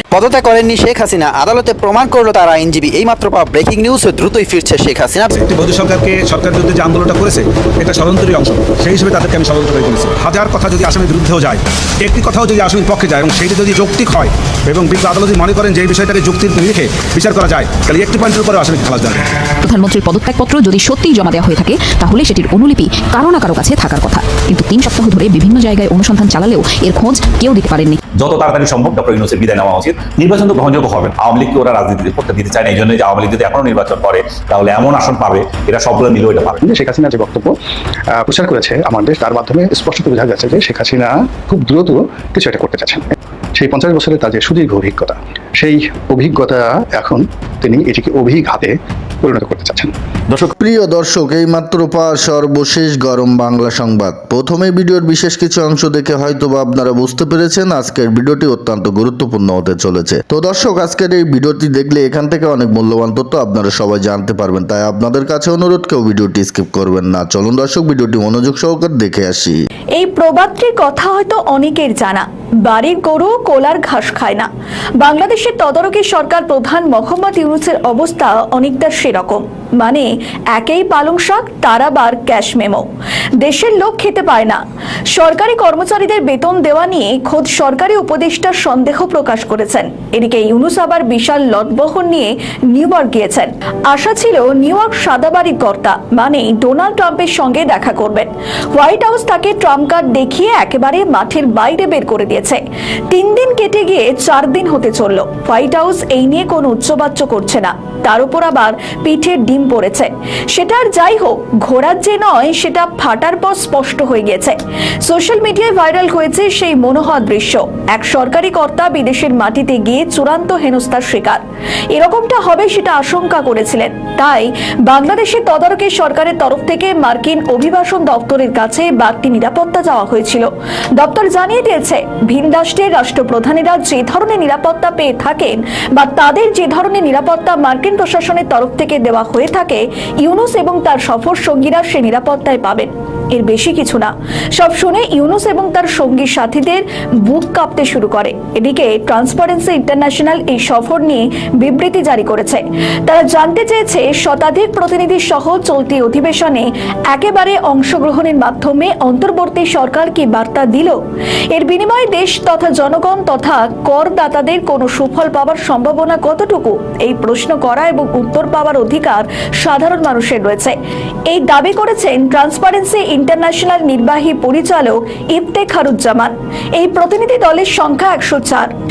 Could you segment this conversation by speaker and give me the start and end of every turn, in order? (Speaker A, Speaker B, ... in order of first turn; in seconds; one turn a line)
Speaker A: 0.1-5.3
Speaker B: 5.3-19.2
Speaker C: 19.6-28.0
Speaker D: 28.1-36.6
Speaker E: 36.6-37.5
Speaker E: 38.1-49.9
Speaker F: 50.5-69.7
Speaker G: 69.9-82.9
Speaker G: 83.4-161.0
Speaker G: 161.5-170.8
Speaker G: 171.3-178.7